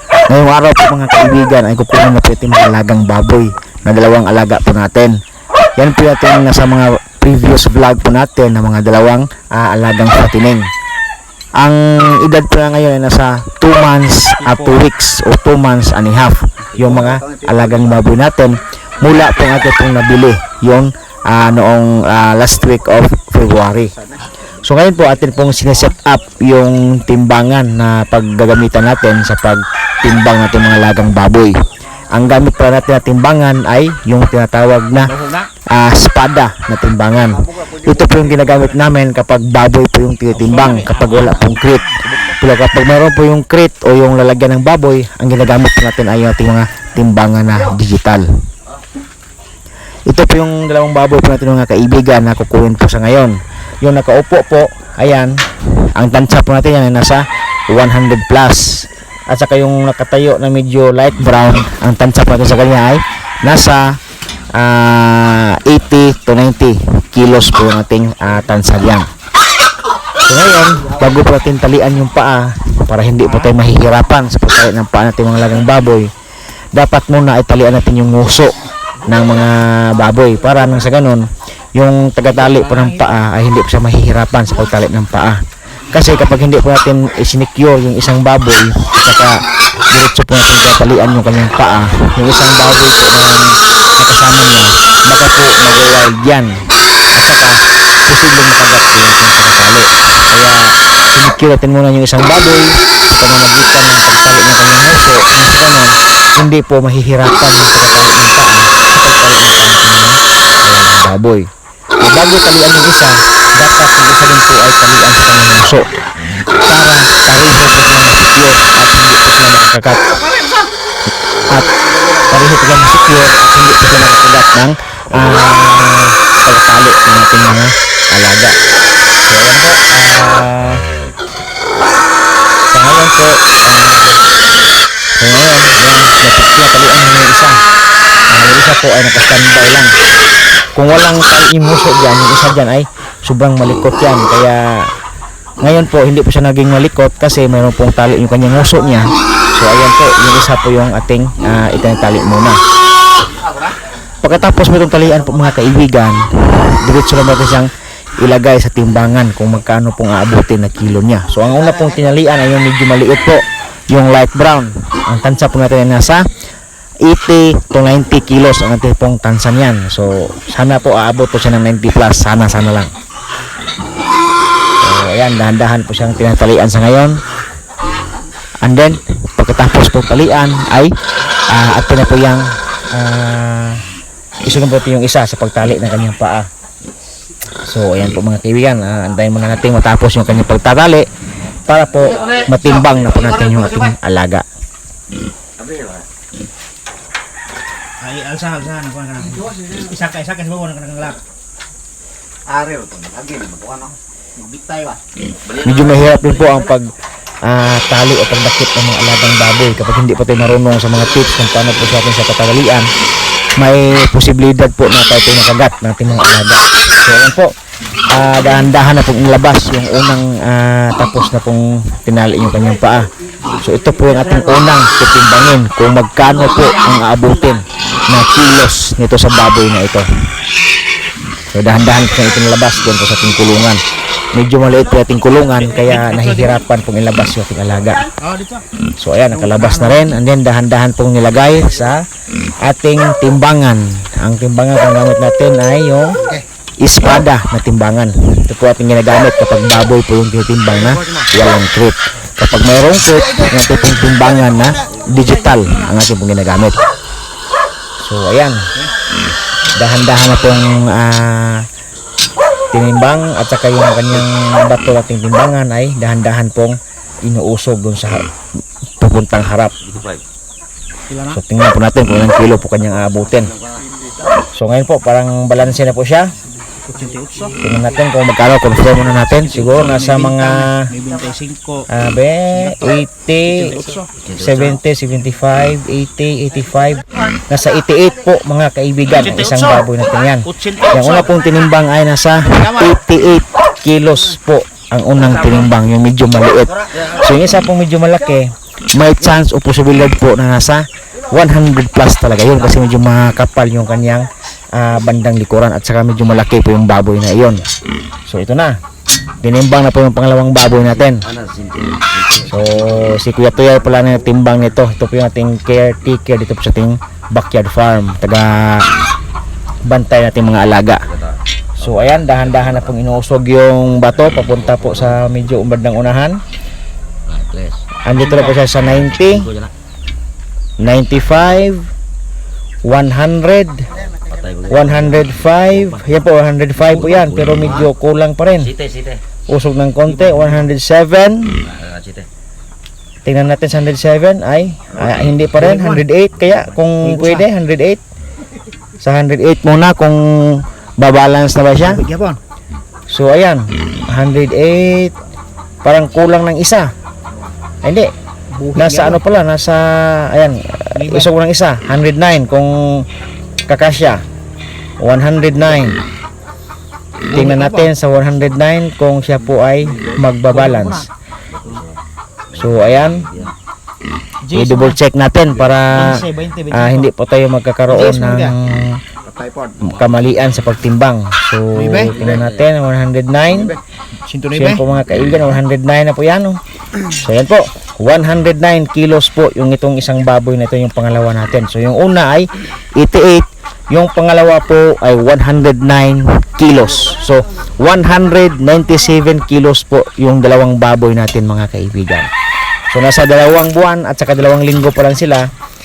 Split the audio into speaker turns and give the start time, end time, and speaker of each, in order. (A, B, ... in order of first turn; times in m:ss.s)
0:00.3-0:05.2 A
0:05.8-0:10.7 A
0:11.6-0:24.0 A
0:14.4-0:14.8 B
0:24.6-0:31.6 A
0:32.1-0:48.3 A
0:35.0-0:35.5 B
0:40.3-0:42.4 B
0:50.1-1:04.0 A
1:04.5-1:09.1 A
1:10.2-1:16.1 A
1:16.7-1:55.9 A
1:22.4-1:22.8 B
1:56.6-2:00.0 A
2:01.5-2:08.6 A
2:09.2-2:10.8 A
2:12.7-2:14.2 A
2:15.2-2:17.6 A
2:18.3-2:19.9 A
2:20.8-2:24.9 A
2:25.6-2:32.6 A
2:34.2-2:46.3 A
2:47.0-2:52.9 A
2:54.8-2:57.2 A
2:58.6-3:00.9 A
3:01.5-3:03.8 A
3:04.4-3:06.5 A
3:07.6-3:11.1 A
3:11.7-3:14.5 A
3:18.0-3:21.2 B
3:22.6-3:23.8 C
3:25.6-3:26.9 A
3:27.4-3:32.9 A
3:33.6-3:37.5 A
3:38.1-3:50.1 A
3:51.5-3:53.8 A
3:54.3-3:58.1 A
3:55.8-3:56.6 B
3:58.2-3:58.6 B
3:59.0-4:02.0 A
3:59.3-4:00.1 B
4:02.6-4:06.2 A
4:06.8-4:16.8 A
4:18.0-4:18.7 A
4:19.7-4:21.7 A
4:22.7-4:28.3 A
4:29.0-4:29.8 A
4:31.1-4:31.4 B
4:31.3-4:33.5 A
4:34.5-4:36.3 A
4:36.9-4:37.6 B
4:37.6-4:40.9 A
4:39.4-4:41.9 B
4:41.9-5:07.7 A
4:42.5-4:42.9 B
4:43.5-4:44.1 B
4:49.2-4:49.8 B
4:50.5-4:51.3 B
4:52.4-4:52.9 B
5:08.3-5:08.8 A
5:09.4-5:11.3 A
5:11.3-5:12.6 C
5:12.4-5:18.9 A
5:19.9-5:21.0 A
5:21.8-5:26.4 A
5:27.3-5:27.8 C
5:28.0-5:29.5 A
5:28.2-5:28.5 B
5:30.8-5:31.9 A
5:32.8-5:33.9 A
5:34.3-5:34.7 C
5:34.7-5:38.8 A
5:38.9-5:39.2 C
5:39.5-5:41.6 A
5:40.1-5:40.7 B
5:41.8-5:42.2 C
5:43.2-5:48.0 A
5:45.6-5:46.0 B
5:47.0-5:47.5 B
5:49.0-5:52.0 A
5:51.8-5:52.4 B
5:53.1-5:55.2 A
5:55.8-5:56.9 A
5:57.8-5:58.1 A
5:58.6-5:59.2 B
5:58.7-6:03.1 A
6:00.9-6:01.3 B
6:03.7-6:04.2 A
6:05.0-6:06.0 A
6:07.3-6:11.1 A
6:07.3-6:07.9 B
6:10.5-6:11.1 B
6:12.5-6:13.4 A
6:14.5-6:15.0 B
6:14.5-6:19.0 A
6:15.7-6:17.1 B
6:17.9-6:18.6 B
6:19.8-6:23.8 A
6:21.7-6:22.1 B
6:24.3-6:24.8 B
6:24.5-6:42.3 A
6:42.9-6:45.5 A